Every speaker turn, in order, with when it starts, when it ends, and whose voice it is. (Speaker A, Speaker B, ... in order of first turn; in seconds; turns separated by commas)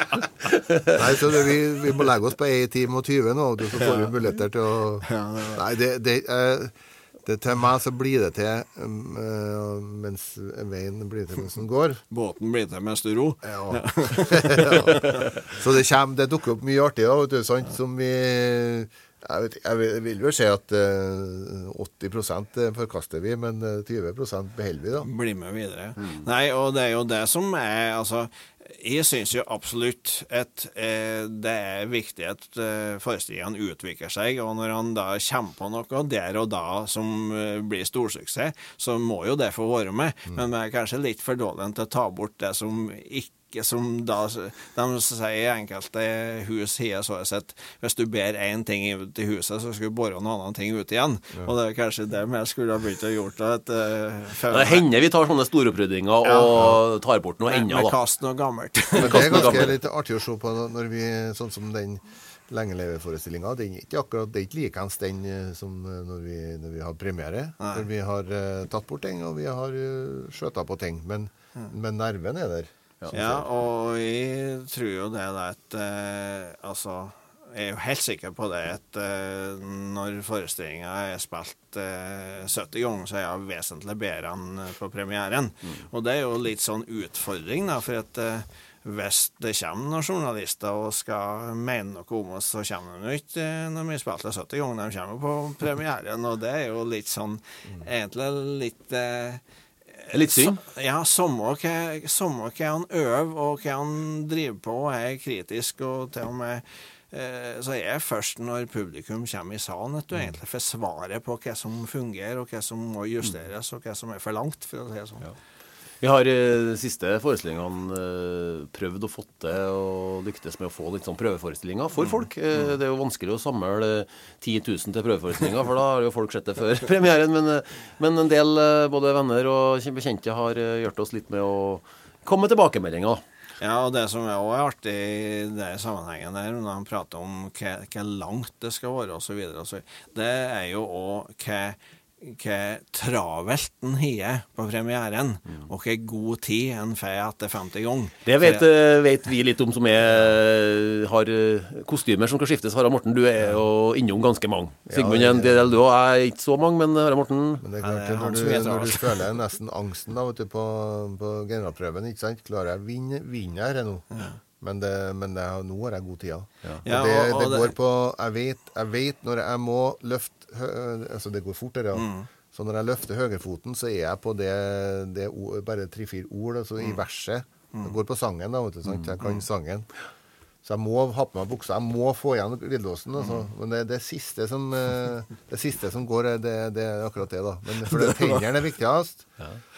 Speaker A: 0.5-0.9, Speaker B: 0.9-12.0, Speaker C: 3.8-4.1, Speaker C: 5.0-5.6, Speaker C: 12.1-15.4, Speaker B: 13.4-25.1, Speaker C: 25.0-54.9, Speaker A: 54.5-58.0, Speaker C: 56.2-56.8, Speaker C: 57.5-59.7, Speaker A: 59.0-59.8, Speaker B: 59.0-73.5, Speaker C: 67.6-67.9, Speaker C: 73.1-99.4, Speaker C: 100.0-115.2, Speaker A: 100.1-100.6, Speaker A: 116.0-133.2, Speaker C: 133.6-148.7, Speaker A: 148.2-157.7, Speaker B: 154.9-155.8, Speaker B: 157.6-179.9, Speaker C: 157.8-159.3, Speaker C: 166.8-167.8, Speaker C: 171.9-172.3, Speaker A: 178.9-179.1, Speaker C: 179.2-179.4, Speaker B: 180.6-189.3, Speaker C: 187.9-188.3